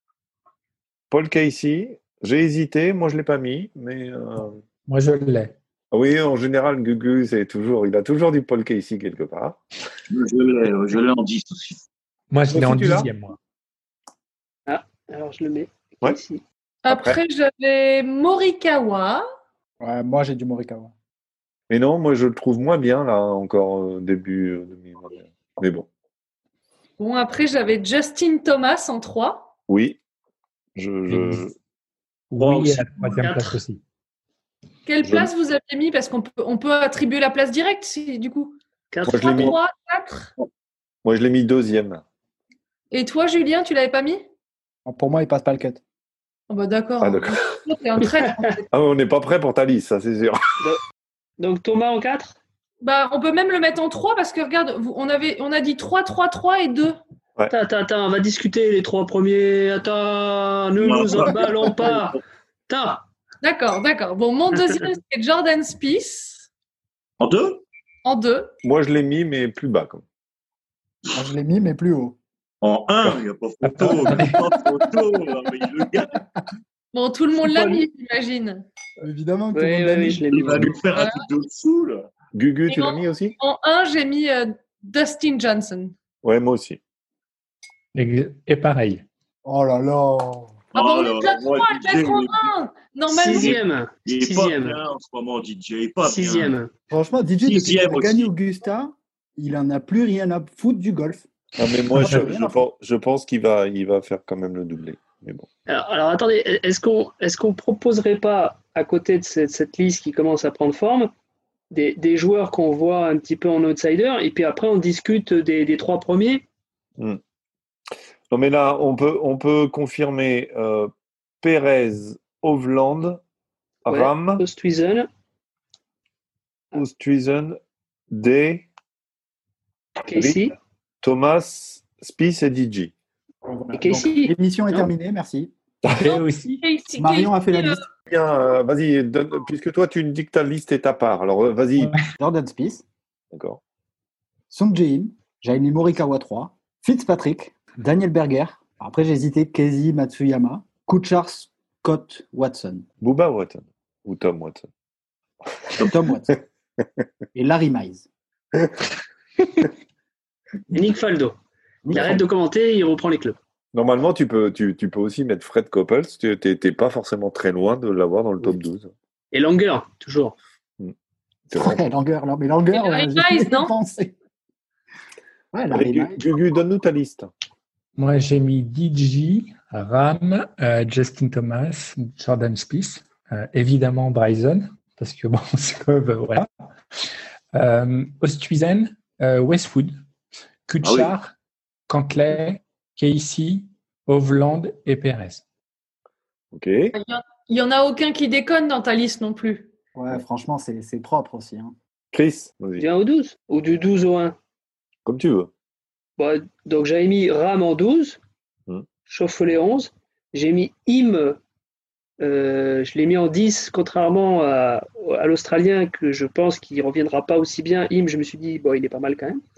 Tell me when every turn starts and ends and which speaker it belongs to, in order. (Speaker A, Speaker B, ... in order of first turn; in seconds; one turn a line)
Speaker A: 1.1-4.6
Speaker B: 4.9-5.5
Speaker A: 5.9-9.6
Speaker C: 10.1-11.8
Speaker B: 12.3-13.4
Speaker A: 12.5-13.1
Speaker D: 14.7-16.4
Speaker E: 16.8-19.2
Speaker A: 16.9-17.2
Speaker F: 19.8-20.9
Speaker A: 21.7-25.9
Speaker E: 27.0-29.5
Speaker A: 29.7-30.0
Speaker A: 30.8-31.5
Speaker B: 31.1-31.4
Speaker B: 32.3-33.8
Speaker C: 32.4-32.8
Speaker D: 33.0-33.6
Speaker E: 34.9-38.6
Speaker A: 35.0-35.3
Speaker D: 38.9-39.5
Speaker A: 39.0-39.5
Speaker E: 39.2-40.3
Speaker A: 41.0-42.0
Speaker E: 42.9-44.2
Speaker F: 44.9-45.8
Speaker E: 46.5-48.7
Speaker A: 47.0-47.6
Speaker A: 48.7-50.6
Speaker D: 51.4-52.4
Speaker E: 52.8-57.0
Speaker D: 57.5-63.0
Speaker C: 60.8-62.1
Speaker E: 63.4-66.5
Speaker C: 67.2-67.6
Speaker E: 68.0-68.5
Speaker A: 68.6-70.0
Speaker F: 71.1-72.2
Speaker C: 72.6-76.2
Speaker B: 73.8-74.3
Speaker E: 76.9-78.7
Speaker F: 79.0-80.3
Speaker D: 79.5-80.8
Speaker C: 80.3-82.1
Speaker E: 80.9-81.2
Speaker A: 82.3-83.4
Speaker E: 82.7-85.9
Speaker A: 86.2-86.8
Speaker B: 88.0-89.0
Speaker F: 89.5-90.6
Speaker C: 90.7-92.5
Speaker E: 90.7-93.5
Speaker D: 93.1-94.8
Speaker C: 93.3-96.6
Speaker D: 96.0-96.7
Speaker F: 96.9-101.3
Speaker C: 97.4-98.3
Speaker A: 101.6-105.5
Speaker F: 101.9-102.6
Speaker D: 105.7-111.1
Speaker D: 111.7-116.4
Speaker A: 118.3-123.2
Speaker A: 123.9-124.4
Speaker D: 123.9-125.1
Speaker A: 126.7-127.6
Speaker A: 128.1-128.7
Speaker D: 130.1-130.5
Speaker A: 130.1-130.4
Speaker A: 131.0-132.9
Speaker F: 133.4-135.5
Speaker D: 133.8-134.9
Speaker B: 135.9-136.6
Speaker E: 136.1-137.9
Speaker F: 137.0-137.8
Speaker A: 138.1-142.0
Speaker F: 142.1-142.8
Speaker A: 143.3-143.6
Speaker F: 144.5-152.9
Speaker A: 153.0-154.7
Speaker F: 155.8-156.4
Speaker F: 157.3-158.1
Speaker D: 160.7-161.4
Speaker F: 161.8-162.2
Speaker D: 161.9-163.4
Speaker A: 163.7-168.9
Speaker D: 169.3-170.4
Speaker A: 171.5-171.8
Speaker F: 171.5-174.1
Speaker E: 172.7-173.7
Speaker F: 175.5-176.2
Speaker A: 175.7-177.3
Speaker B: 178.0-186.5
Speaker B: 187.5-190.0
Speaker B: 190.7-191.3
Speaker C: 190.8-191.1
Speaker B: 191.9-195.4
Speaker A: 196.5-196.9
Speaker E: 196.9-199.7
Speaker F: 199.9-201.8
Speaker A: 202.1-202.9
Speaker D: 202.8-204.4
Speaker A: 205.1-205.5
Speaker D: 206.2-208.2
Speaker D: 209.1-211.4
Speaker D: 212.2-219.4